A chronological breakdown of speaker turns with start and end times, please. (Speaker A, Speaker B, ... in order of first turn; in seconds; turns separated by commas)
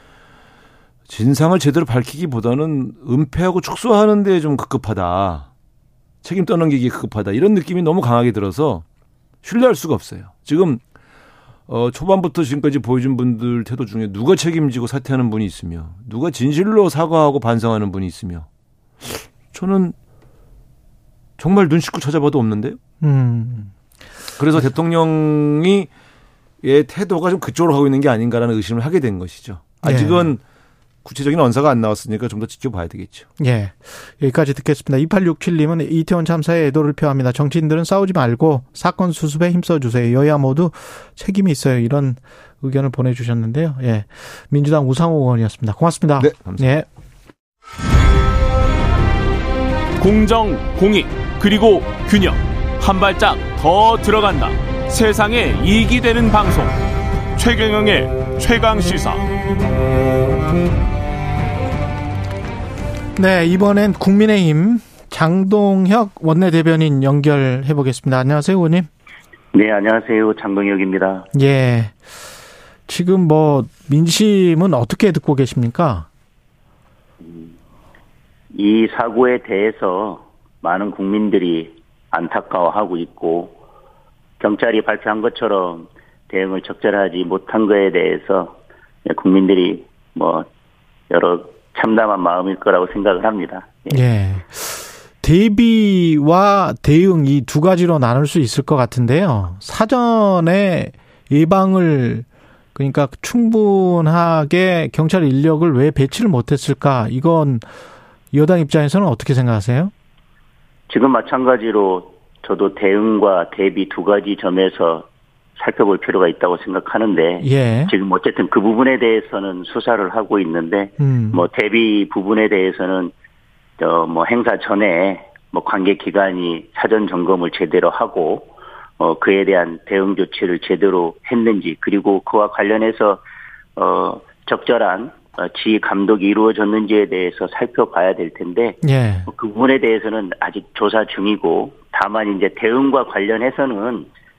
Speaker A: 1.1-5.5, Speaker A: 6.2-8.8, Speaker A: 9.4-10.8, Speaker A: 11.7-18.5, Speaker A: 19.0-19.9, Speaker A: 21.4-22.8, Speaker B: 23.0-23.7, Speaker A: 24.4-25.9, Speaker A: 26.6-30.4, Speaker B: 29.8-30.3, Speaker A: 31.1-33.3, Speaker B: 33.4-46.9, Speaker A: 46.2-46.6, Speaker C: 50.0-56.8, Speaker C: 57.4-59.3, Speaker B: 63.2-68.9, Speaker D: 69.5-71.3, Speaker B: 71.3-72.0, Speaker B: 72.9-76.1, Speaker D: 78.5-83.6, Speaker D: 84.4-90.5, Speaker D: 91.1-94.0, Speaker B: 93.9-107.7, Speaker B: 108.3-109.9, Speaker D: 110.9-123.1, Speaker B: 117.4-117.9, Speaker B: 121.0-121.5, Speaker D: 123.8-133.2, Speaker D: 133.8-144.1, Speaker B: 138.8-139.3